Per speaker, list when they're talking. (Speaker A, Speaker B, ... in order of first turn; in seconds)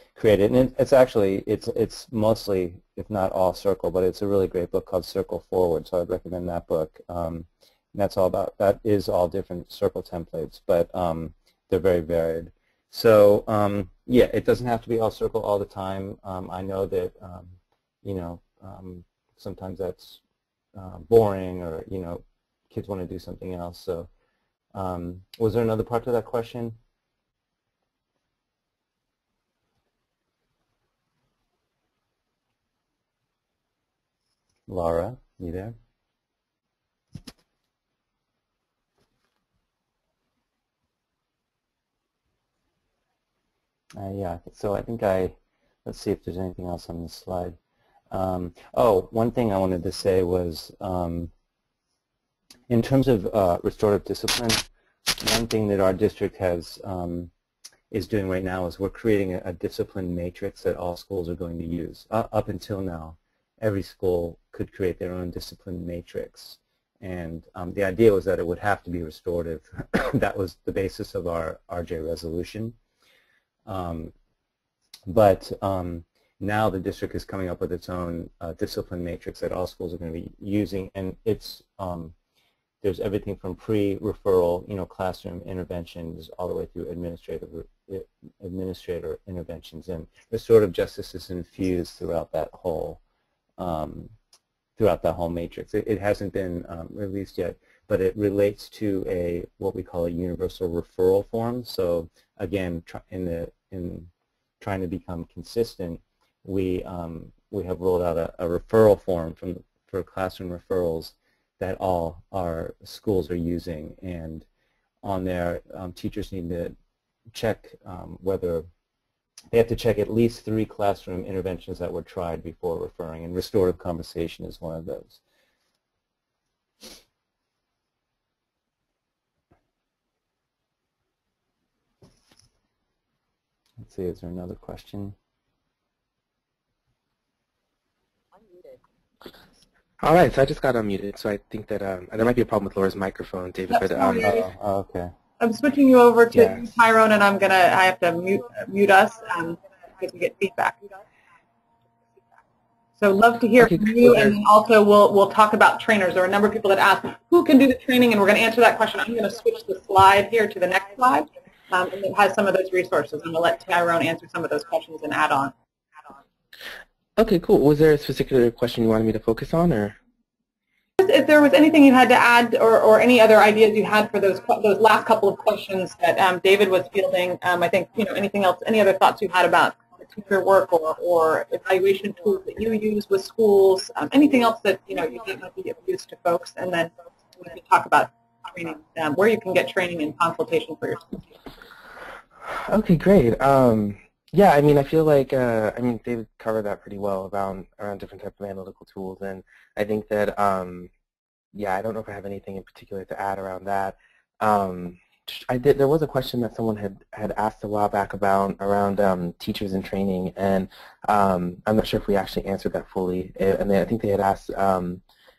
Speaker A: 0.1-20.2, 20.7-24.1, 24.7-26.8, 34.7-35.8, 43.9-47.6, 48.1-51.3, 52.7-57.3, 57.9-72.8, 73.7-74.1, 75.1-82.1, 82.8-93.0, 93.6-94.1, 94.8-114.5, 115.0-116.7, 117.3-118.7, 119.5-125.2, 133.8-135.2, 144.2-145.1, 146.3-146.7
Speaker B: 140.0-144.3, 153.6-154.4, 167.2-170.0, 192.5-200.9, 201.5-215.0
Speaker C: 143.7-144.5, 145.4-150.8, 153.0-165.5, 171.0-191.1